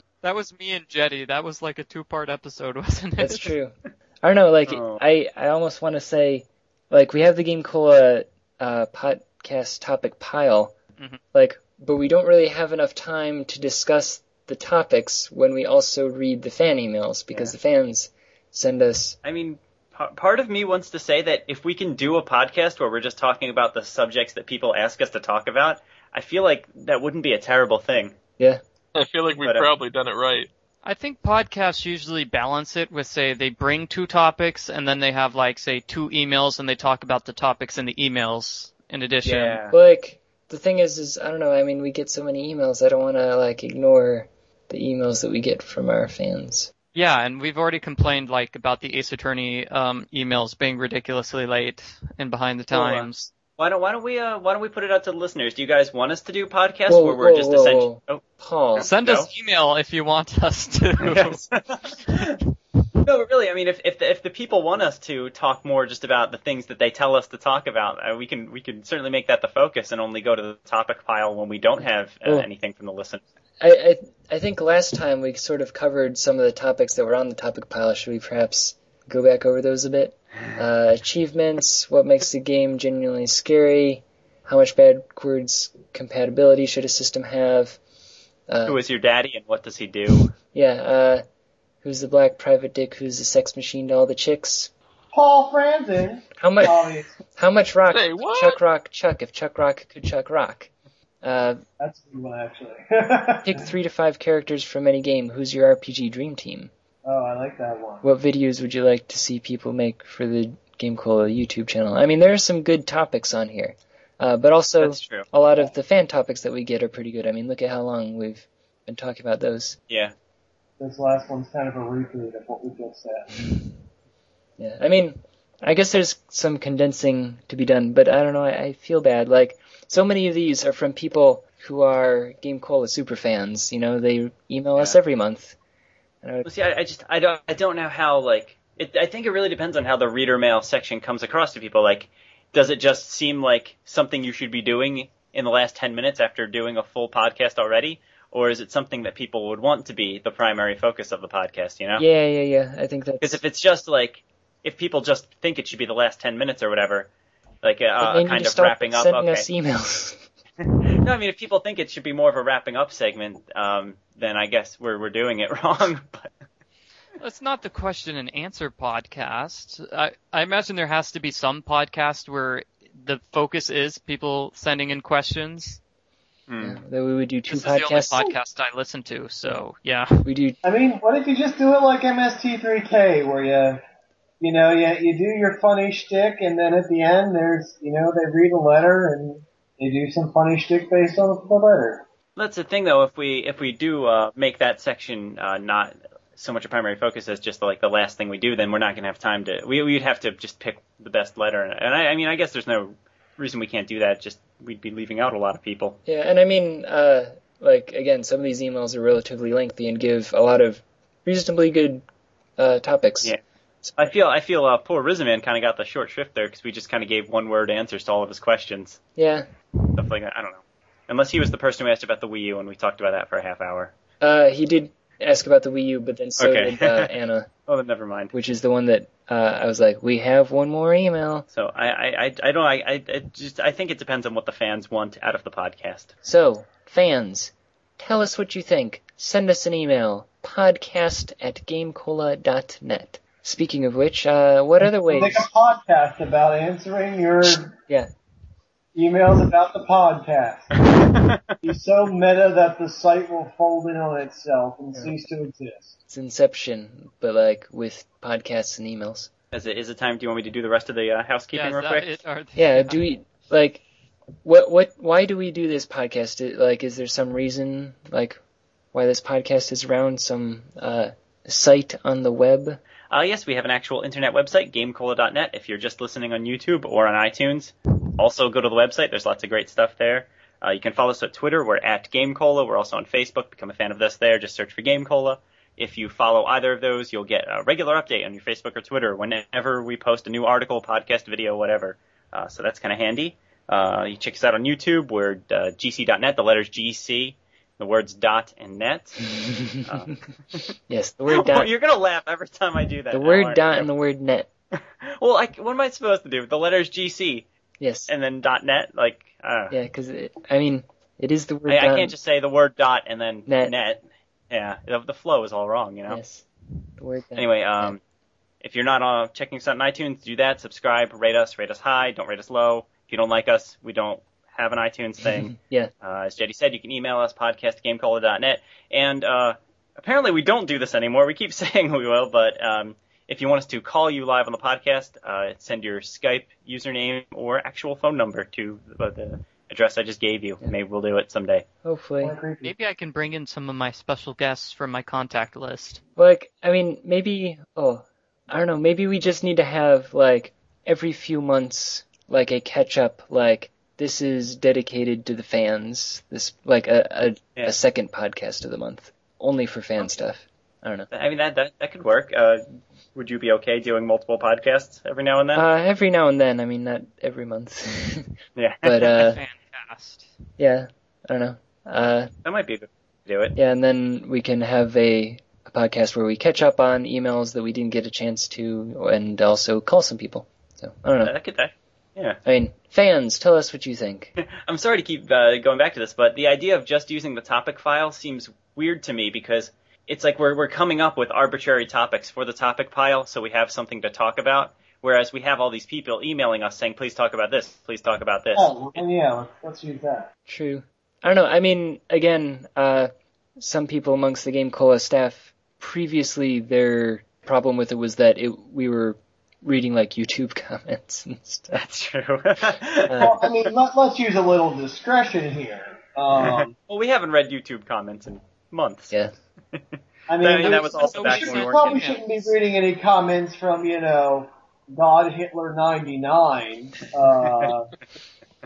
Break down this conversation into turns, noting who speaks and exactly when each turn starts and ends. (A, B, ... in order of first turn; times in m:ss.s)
0:00.2-0:03.5 A
0:03.2-0:10.7 B
0:04.7-0:05.0 C
0:11.3-0:19.2 B
0:19.2-0:28.2 C
0:28.9-0:30.5 D
0:29.4-0:29.7 C
0:30.8-0:39.6 A
0:39.2-0:39.8 C
0:39.7-0:46.7 B
0:46.9-0:53.3 A
0:52.7-0:58.2 C
0:56.9-0:58.9 B
0:58.8-0:59.3 C
0:58.8-1:01.4 A
1:01.0-1:02.4 C
1:03.0-1:13.2 C
1:13.6-1:27.8 B
1:28.5-1:28.8 B
1:28.6-1:30.3 C
1:30.5-1:31.2 B
1:31.8-1:34.7 B
1:35.1-1:37.1 E
1:36.4-1:40.7 B
1:37.9-1:38.6 D
1:41.2-1:41.6 B
1:41.8-1:43.7 E
1:43.4-1:46.7 B
1:47.0-1:48.1 E
1:48.0-1:59.8 B
1:54.8-1:55.2 C
2:00.8-2:03.4 E
2:04.6-2:15.6 B
2:16.4-2:32.0 C
2:32.0-2:33.4 B
2:33.2-2:37.1 C
2:37.6-2:39.5 C
2:38.0-2:40.2 B
2:40.8-2:46.3 C
2:47.2-2:55.8 A
2:56.5-2:56.8 C
2:56.6-2:58.4 B
2:57.5-3:00.2 A
3:00.2-3:00.6 B
3:00.6-3:03.8 E
3:04.4-3:12.0 E
3:12.4-3:26.0 C
3:26.0-3:32.0 B
3:32.6-3:33.3 B
3:34.0-3:39.0 C
3:39.2-3:39.4 B
3:39.9-3:43.9 C
3:44.2-3:47.5 B
3:46.4-3:47.1 C
3:47.7-3:48.3 C
3:48.3-3:51.4 B
3:51.5-3:56.1 C
3:56.2-4:05.5 B
4:05.1-4:07.8 E
4:08.9-4:10.8 E
4:10.9-4:11.4 C
4:11.6-4:16.0 E
4:16.1-4:19.3 B
4:19.5-4:22.1 C
4:21.5-4:23.0 A
4:22.6-4:23.8 B
4:24.4-4:28.4 B
4:28.9-4:32.8 B
4:33.1-5:00.7 C
4:59.2-5:00.1 B
5:00.9-5:01.7 B
5:01.3-5:03.9 C
5:03.1-5:04.5 B
5:04.8-5:07.4 C
5:07.8-5:08.1 B
5:08.1-5:09.7 C
5:09.7-5:12.2 B
5:11.7-5:16.2 C
5:13.5-5:13.7 B
5:16.1-5:16.4 B
5:17.0-5:17.9 B
5:17.4-5:18.0 C
5:18.6-5:41.6 C
5:25.2-5:25.9 B
5:41.8-5:42.3 B
5:42.2-5:42.7 E
5:42.6-5:46.0 A
5:46.2-6:01.1 B
6:01.1-6:02.6 C
6:03.1-6:05.6 C
6:05.5-6:09.4 B
6:08.6-6:09.2 C
6:09.2-6:10.3 A
6:10.6-6:12.3 B
6:12.4-6:13.6 C
6:13.6-6:21.3 B
6:21.2-6:22.4 C
6:22.4-6:24.3 B
6:24.4-6:39.0 C
6:38.5-6:40.3 E
6:40.5-6:51.8 B
6:51.7-6:53.5 C
6:53.1-6:53.4 B
6:53.2-6:56.7 E
6:56.3-6:59.1 C
7:00.3-7:08.0 E
7:00.4-7:02.1 C
7:00.6-7:02.2 A